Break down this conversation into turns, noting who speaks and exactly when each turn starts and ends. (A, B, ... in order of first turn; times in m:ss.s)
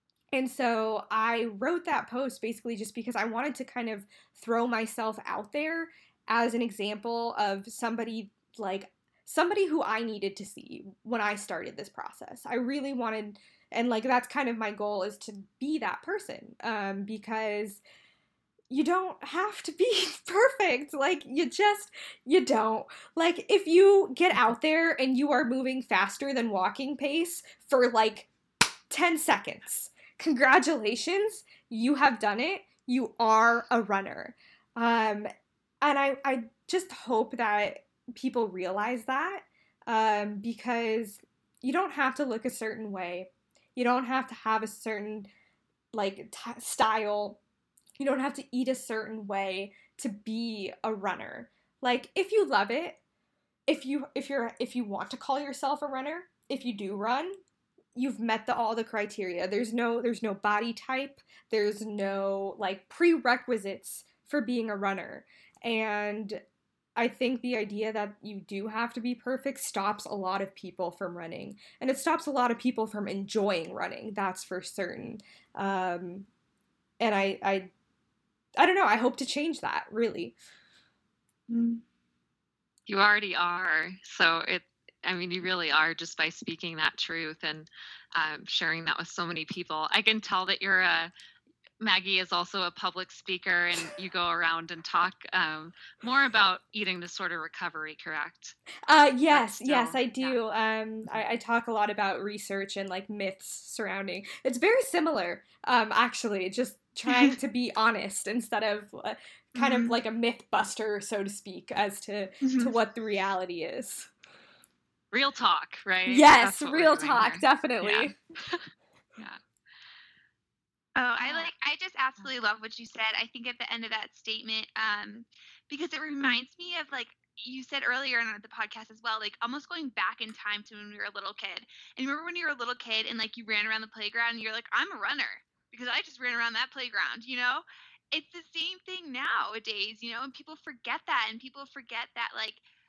0:00.3-0:17.8 A
0:18.7-0:28.3 A
0:28.9-0:35.3 A
0:35.8-0:45.3 A
0:45.9-0:47.4 A
0:48.0-0:53.0 A
0:53.7-0:57.3 A
0:57.9-1:06.4 A
1:07.0-1:16.3 A
1:17.0-1:17.7 A
1:18.6-1:20.4 A
1:21.5-1:21.8 B
1:22.9-1:31.1 C
1:31.8-1:38.6 C
1:38.9-1:54.1 A
1:39.3-1:40.4 C
1:49.6-1:50.0 B
1:52.4-1:52.7 B
1:55.1-1:58.6 C
1:56.1-1:58.1 A
2:01.0-2:22.6 B